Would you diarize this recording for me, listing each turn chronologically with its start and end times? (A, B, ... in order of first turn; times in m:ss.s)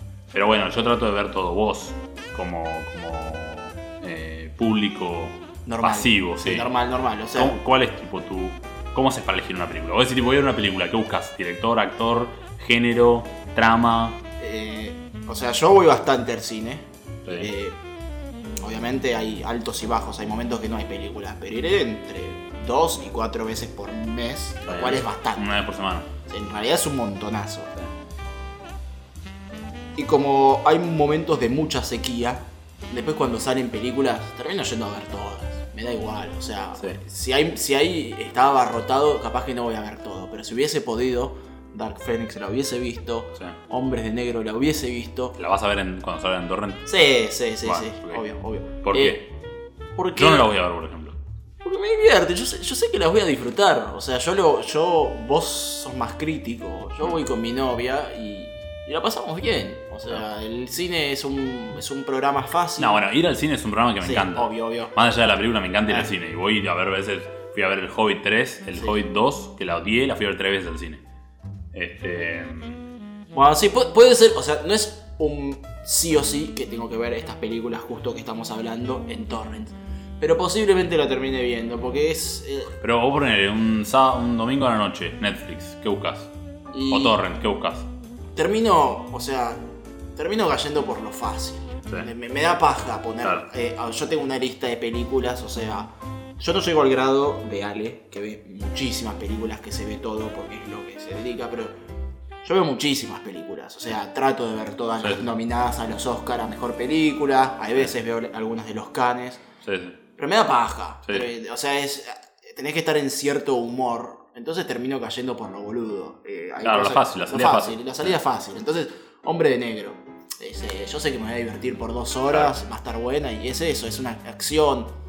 0:00.3-0:06.7 A
0:05.6-0:07.6 B
0:07.3-0:14.2 A
0:14.4-0:17.8 B
0:17.2-0:17.5 A
0:18.6-0:25.6 B
0:24.7-0:26.1 A
0:26.3-0:27.7 B
0:30.0-0:45.4 B
0:45.4-0:47.0 A
0:46.9-0:49.2 B
0:47.6-0:48.2 A
0:48.8-0:49.2 A
0:50.0-0:50.5 B
0:50.2-0:51.2 A
0:51.6-1:03.0 B
1:02.8-1:11.0 A
1:04.0-1:04.9 B
1:08.7-1:09.0 B
1:11.7-1:12.8 A
1:13.3-1:22.7 B
1:22.8-1:26.3 A
1:26.7-1:27.2 B
1:26.9-1:27.9 A
1:28.4-1:29.6 B
1:30.2-1:41.7 B
1:42.4-1:49.4 B
1:45.0-1:45.2 A
1:49.6-1:50.0 A
1:50.2-2:04.9 B
1:56.6-1:58.2 A
2:02.3-2:02.6 A